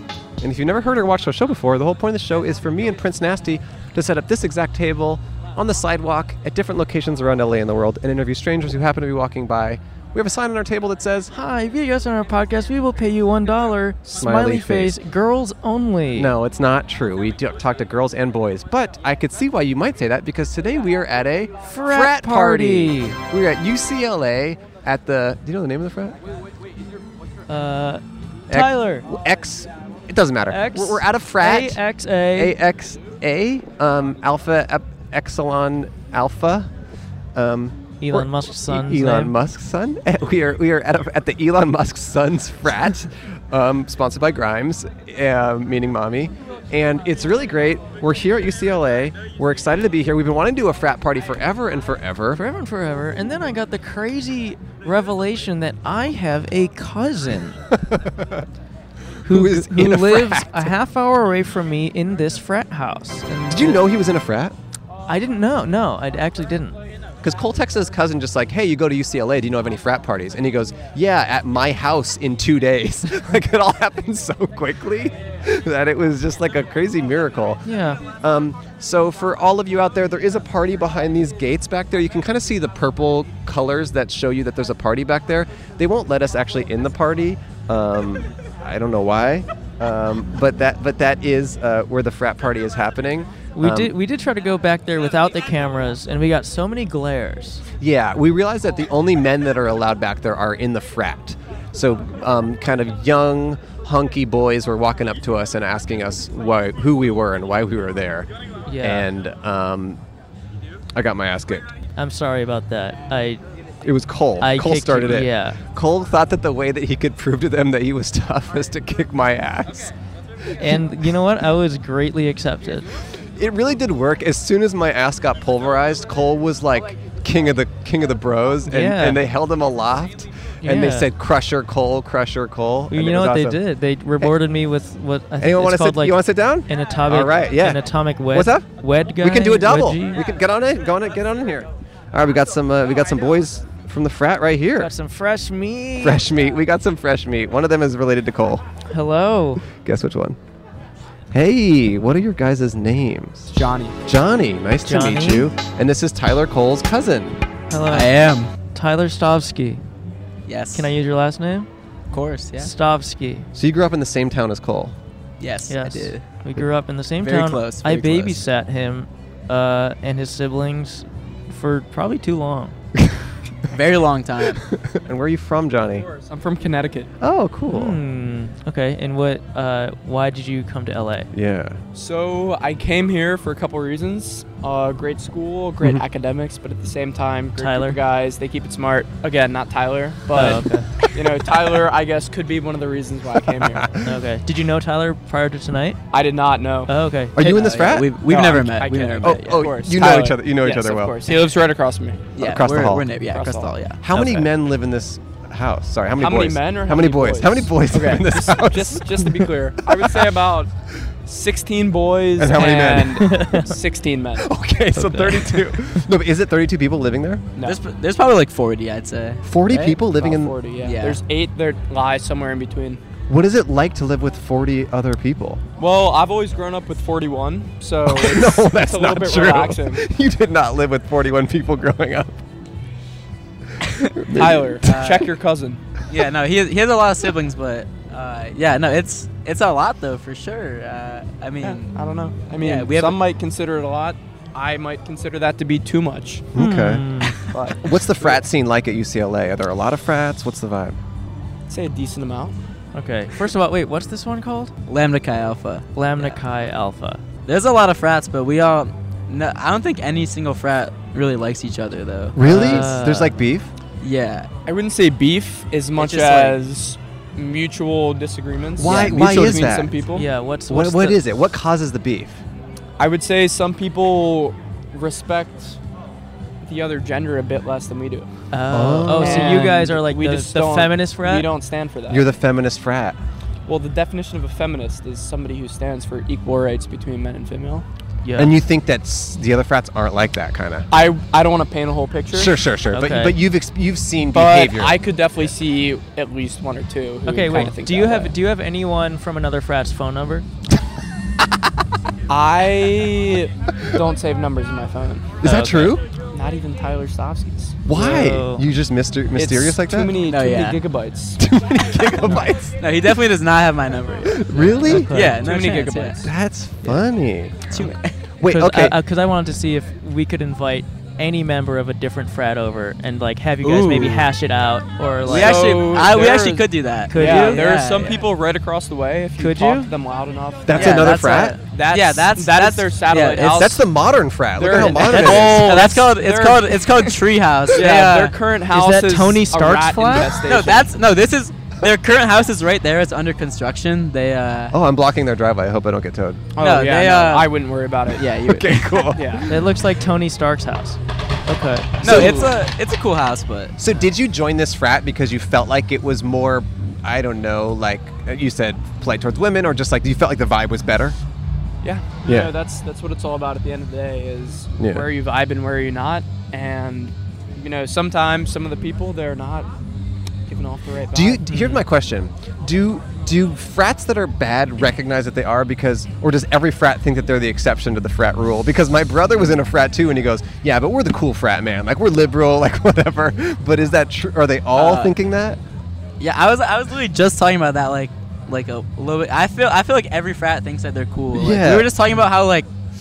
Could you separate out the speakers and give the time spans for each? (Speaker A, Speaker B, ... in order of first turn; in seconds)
Speaker A: 0.4-11.3, 14.2-15.0, 16.1-26.2, 28.5-31.8, 32.3-36.7, 37.3-52.4, 57.7-58.5, 59.3-60.7, 63.5-64.5, 67.2-77.6, 78.2-93.9, 97.8-108.3, 108.8-110.0, 110.9-111.7, 113.8-119.9, 120.6-120.8, 123.3-133.6, 135.4-144.9, 146.0-148.6, 149.8-150.4, 151.3-153.5, 154.1-157.4, 163.5-164.9, 175.0-176.1, 177.2-178.0, 181.3-181.8, 197.3-198.1, 199.2-201.3, 202.4-203.1, 204.0-209.2, 212.4-213.3, 214.4-217.4, 219.4-220.5, 223.3-225.6, 228.1-232.4, 234.2-234.8, 246.5-247.1, 247.8-251.0, 262.3-263.7, 268.8-270.0, 270.7-272.4, 278.7-279.6, 282.1-283.2, 288.4-290.9, 292.3-295.0, 305.4-306.0, 307.8-310.2, 311.4-312.8, 314.2-315.1, 316.2-319.0, 330.7-331.6, 333.5-335.7, 344.7-346.4, 348.4-349.4, 352.0-352.4, 353.8-361.2, 362.2-362.5, 364.8-365.1, 371.1-385.6, 391.3-391.9
Speaker B: 11.3-16.3, 21.6-23.2, 27.5-29.1, 30.5-32.5, 38.0-39.3, 52.3-57.5, 59.2-63.8, 65.1-66.8, 77.6-78.0, 93.5-97.6, 108.7-109.1, 112.0-113.4, 114.4-115.6, 120.6-122.8, 128.6-129.2, 130.6-131.1, 132.9-140.2, 144.8-146.2, 148.9-149.6, 154.8-155.5, 157.7-158.1, 158.7-159.8, 160.7-161.7, 162.6-163.5, 165.7-172.8, 177.7-181.3, 187.6-188.0, 190.3-190.9, 194.0-196.0, 196.8-197.6, 213.2-213.7, 214.9-215.6, 246.5-247.4, 252.9-254.7, 255.9-257.2, 262.4-263.4, 270.1-271.2, 278.5-281.5, 288.2-288.5, 292.9-293.4, 297.2-300.4, 305.4-306.0, 307.9-308.6, 314.8-315.4, 318.4-325.6, 327.1-327.6, 329.4-329.9, 335.1-335.5, 338.7-340.4, 349.5-351.9, 371.5-371.8
Speaker C: 153.5-154.0, 176.1-177.1, 181.9-193.9, 196.1-196.9, 198.2-202.3, 203.3-203.7, 206.2-210.7, 211.2-214.5, 220.2-223.0, 225.8-230.0, 234.3-235.8, 241.6-246.5, 247.5-248.4, 251.7-252.6, 264.6-270.3, 273.0-275.8, 276.6-278.3, 279.1-282.3, 283.7-287.9, 290.9-292.5, 294.3-298.3, 302.3-305.4, 306.3-307.8, 309.4-311.4, 315.4-316.3, 325.2-331.1, 331.7-333.8, 334.6-337.0, 337.7-341.0, 346.6-348.3, 349.1-349.4, 361.8-369.7, 370.5-371.4
Speaker D: 157.9-158.5, 160.4-160.9, 162.1-162.7, 165.4-166.2, 167.2-168.4, 173.7-174.6, 197.4-199.7, 202.3-204.5, 217.6-220.0, 220.8-221.2, 234.8-235.3, 236.1-241.9, 242.5-243.2, 254.9-256.4, 257.4-262.9, 264.0-264.5, 266.0-266.6, 268.9-269.5, 310.3-310.8, 312.8-316.3, 317.7-318.1, 323.6-324.3, 325.3-328.3, 330.7-333.8, 334.8-338.4, 340.4-344.8, 346.6-347.5, 348.1-349.1, 352.0-353.8, 384.7-385.2, 386.2-392.7